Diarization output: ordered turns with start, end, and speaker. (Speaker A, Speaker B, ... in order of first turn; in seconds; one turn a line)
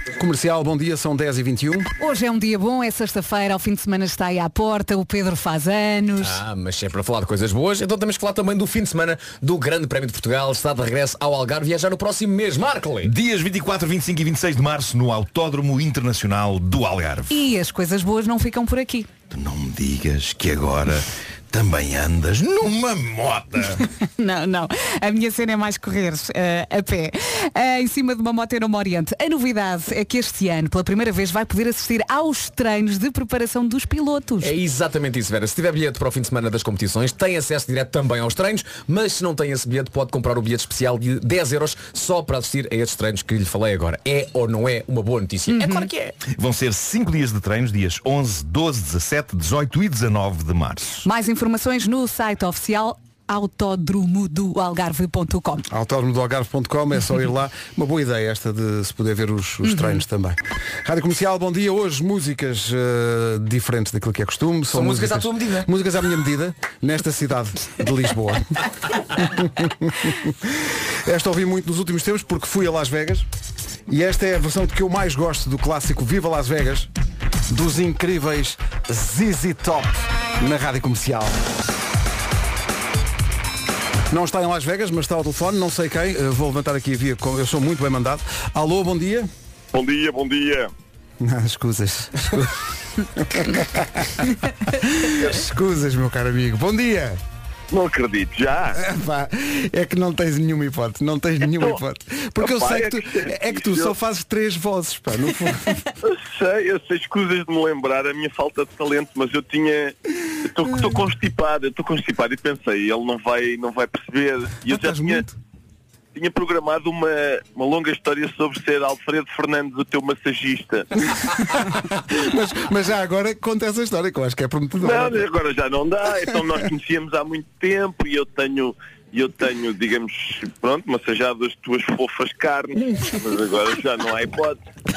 Speaker A: 0.2-1.9
Speaker B: 2.0-6.4
Speaker C: 6.2-13.1
Speaker D: 13.0-17.3
Speaker B: 17.3-19.1
Speaker D: 19.3-23.8
Speaker B: 24.2-34.5
Speaker C: 34.4-46.1
Speaker B: 45.5-45.9
Speaker D: 46.3-51.1
Speaker B: 51.0-55.6
Speaker A: 55.7-68.5
Speaker B: 59.6-60.0
Speaker C: 64.7-65.7
Speaker A: 69.2-73.3
Speaker A: 73.9-76.9
Speaker A: 77.5-81.4
Speaker A: 84.1-89.3
Speaker E: 89.7-90.7
Speaker A: 91.2-92.5
Speaker A: 93.2-97.2
Speaker E: 97.7-98.8
Speaker A: 98.8-105.8
Speaker E: 101.5-101.8
Speaker E: 102.4-103.9
Speaker E: 106.0-115.2
Speaker A: 114.7-115.4
Speaker E: 116.2-120.9
Speaker A: 121.6-125.3
Speaker E: 124.8-134.6